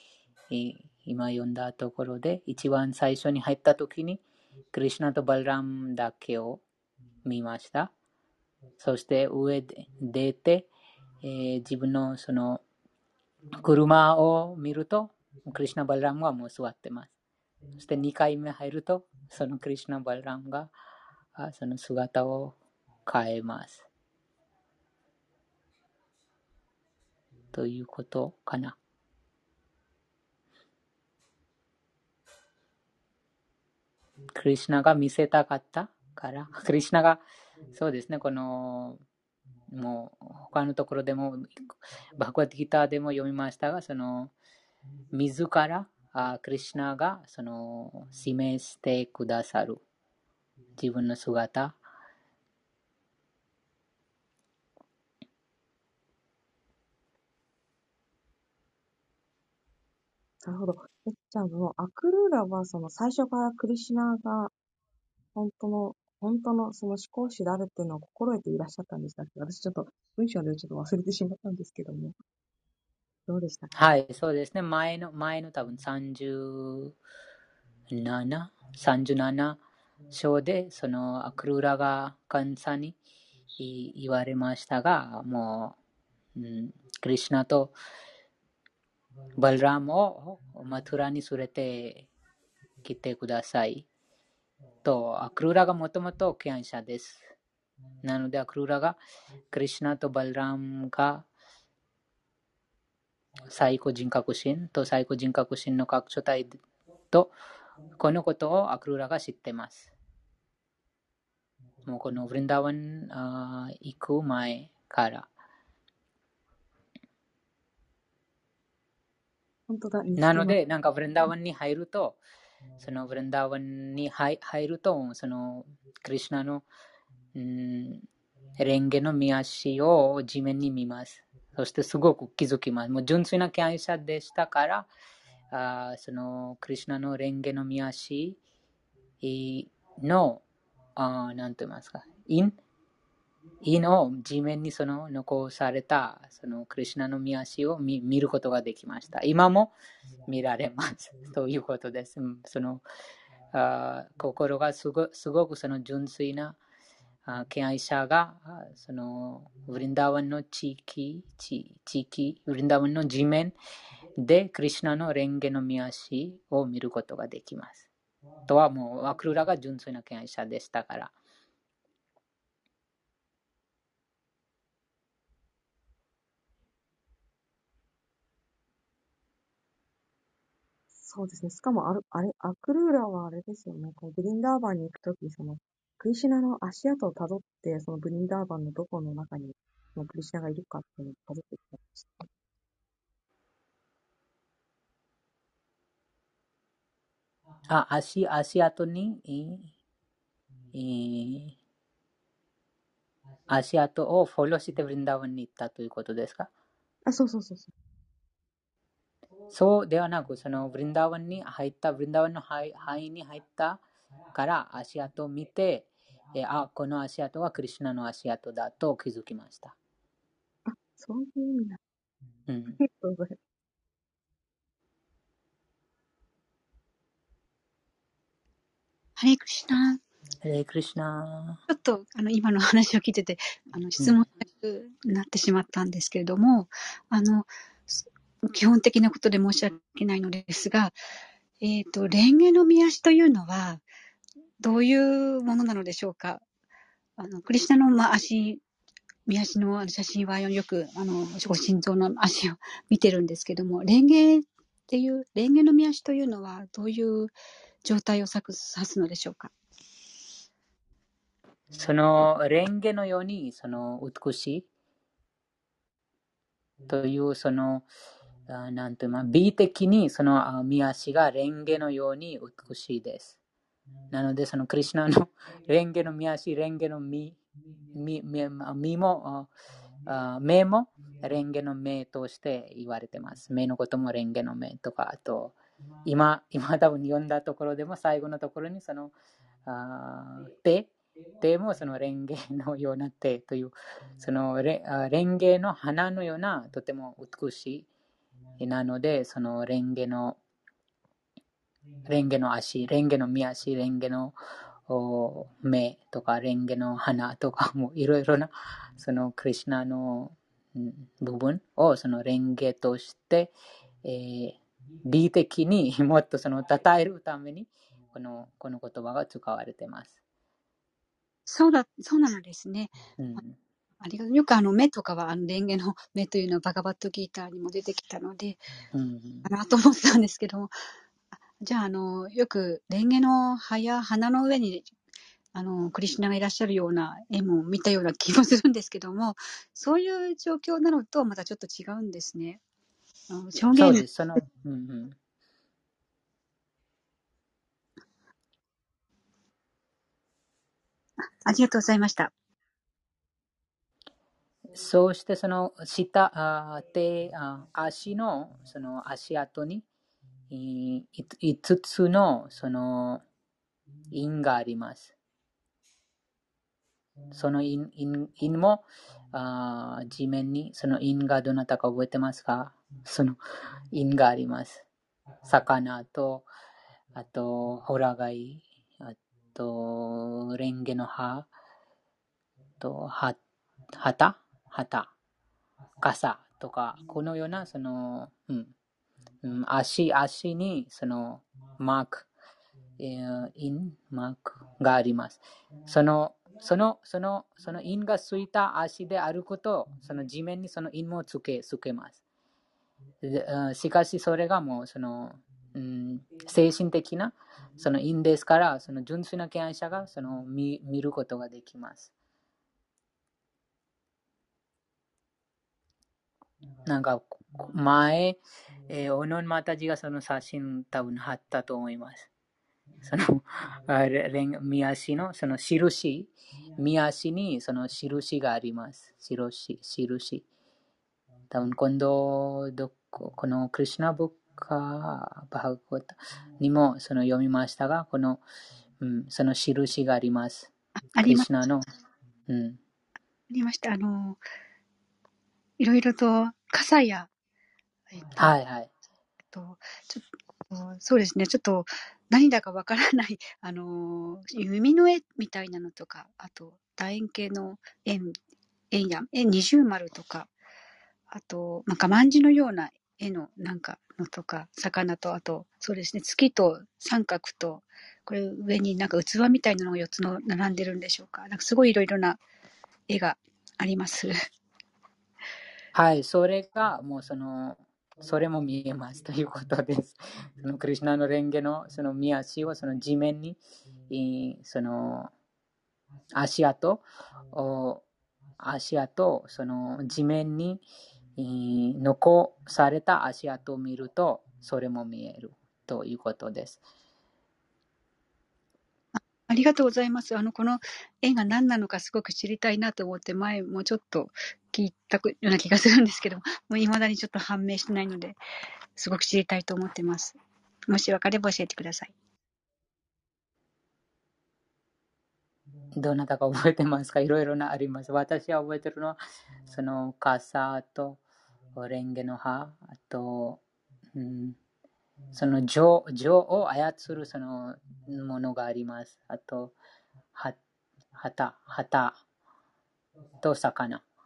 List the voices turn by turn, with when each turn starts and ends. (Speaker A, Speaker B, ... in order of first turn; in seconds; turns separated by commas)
Speaker A: 0.5-4.2, Speaker A: 4.7-6.6, Speaker A: 7.2-7.9, Speaker A: 8.8-10.7, Speaker A: 11.2-12.6, Speaker A: 13.6-17.1, Speaker A: 17.8-20.7, Speaker A: 21.4-22.5, Speaker A: 23.1-23.8, Speaker A: 27.5-28.8, Speaker A: 34.3-37.2, Speaker A: 37.7-39.0, Speaker A: 39.7-44.3, Speaker A: 45.1-49.8, Speaker A: 50.8-51.8, Speaker B: 60.4-64.5, Speaker B: 65.3-72.1, Speaker B: 73.3-73.7, Speaker A: 73.7-76.9, Speaker A: 77.9-79.6, Speaker A: 80.1-82.9, Speaker A: 83.6-85.8, Speaker A: 86.3-87.7, Speaker A: 89.4-92.1, Speaker A: 92.8-93.8, Speaker A: 94.8-97.3, Speaker A: 98.0-99.0, Speaker A: 99.5-101.2, Speaker A: 103.5-106.6, Speaker A: 108.0-109.9, Speaker A: 111.8-115.3, Speaker B: 119.7-120.6, Speaker A: 120.2-122.2, Speaker A: 122.8-126.6, Speaker A: 127.3-128.0, Speaker A: 128.6-134.9, Speaker A: 135.5-138.4, Speaker A: 139.2-140.4, Speaker A: 140.9-142.5, Speaker A: 143.6-149.7, Speaker A: 150.3-152.8, Speaker A: 153.5-156.6, Speaker A: 157.2-163.5, Speaker A: 164.2-167.9, Speaker A: 168.5-171.1, Speaker B: 181.0-192.3, Speaker A: 197.7-199.7, Speaker A: 200.7-201.6, Speaker A: 203.5-206.5, Speaker B: 207.1-207.7, Speaker A: 209.5-213.8, Speaker A: 214.3-219.7, Speaker B: 220.7-221.8, Speaker A: 222.5-222.8, Speaker B: 222.8-223.4, Speaker C: 229.2-230.0, Speaker A: 230.4-231.6, Speaker C: 231.7-240.9, Speaker C: 241.6-243.8, Speaker C: 244.6-246.4, Speaker C: 247.2-248.6, Speaker C: 249.3-257.3, Speaker C: 257.8-259.5, Speaker A: 261.7-264.7, Speaker A: 266.9-267.9, Speaker A: 268.5-273.4, Speaker A: 274.1-277.4, Speaker A: 277.9-279.5, Speaker A: 280.0-289.1, Speaker A: 289.6-290.9, Speaker A: 291.4-297.9, Speaker A: 298.6-300.4, Speaker A: 302.1-304.4, Speaker A: 304.9-313.5, Speaker A: 314.0-320.2, Speaker C: 321.5-323.0, Speaker A: 323.2-323.6, Speaker C: 324.0-328.7, Speaker A: 328.9-329.5, Speaker C: 329.4-330.7, Speaker C: 331.6-334.9, Speaker C: 335.5-342.6, Speaker C: 343.3-344.0, Speaker A: 343.7-345.1, Speaker C: 351.4-352.3, Speaker A: 354.7-359.8, Speaker A: 360.5-363.2, Speaker A: 364.1-365.1, Speaker A: 367.3-373.4, Speaker A: 373.9-374.8, Speaker A: 375.4-376.5, Speaker A: 377.1-381.5, Speaker A: 382.8-383.4, Speaker A: 383.9-385.1, Speaker A: 386.0-388.7, Speaker A: 389.4-392.3, Speaker A: 393.0-402.2, Speaker A: 403.2-412.1, Speaker A: 416.8-422.3, Speaker A: 423.0-430.4, Speaker A: 431.5-438.4, Speaker A: 439.0-441.9, Speaker C: 441.1-441.5, Speaker A: 442.5-442.8, Speaker C: 443.5-444.4, Speaker C: 445.8-447.3, Speaker C: 448.1-448.5, Speaker A: 448.4-448.9, Speaker C: 449.5-458.3, Speaker C: 458.9-460.5, Speaker C: 461.3-472.4, Speaker C: 473.1-474.3, Speaker A: 475.9-485.3, Speaker A: 486.3-488.0, Speaker A: 488.6-490.8, Speaker A: 491.4-496.8, Speaker C: 499.1-508.4, Speaker C: 508.9-510.4, Speaker C: 510.9-512.1, Speaker A: 515.9-521.2, Speaker A: 521.7-523.6, Speaker A: 524.1-524.6, Speaker A: 525.3-529.8, Speaker A: 531.1-532.2, Speaker A: 533.4-534.0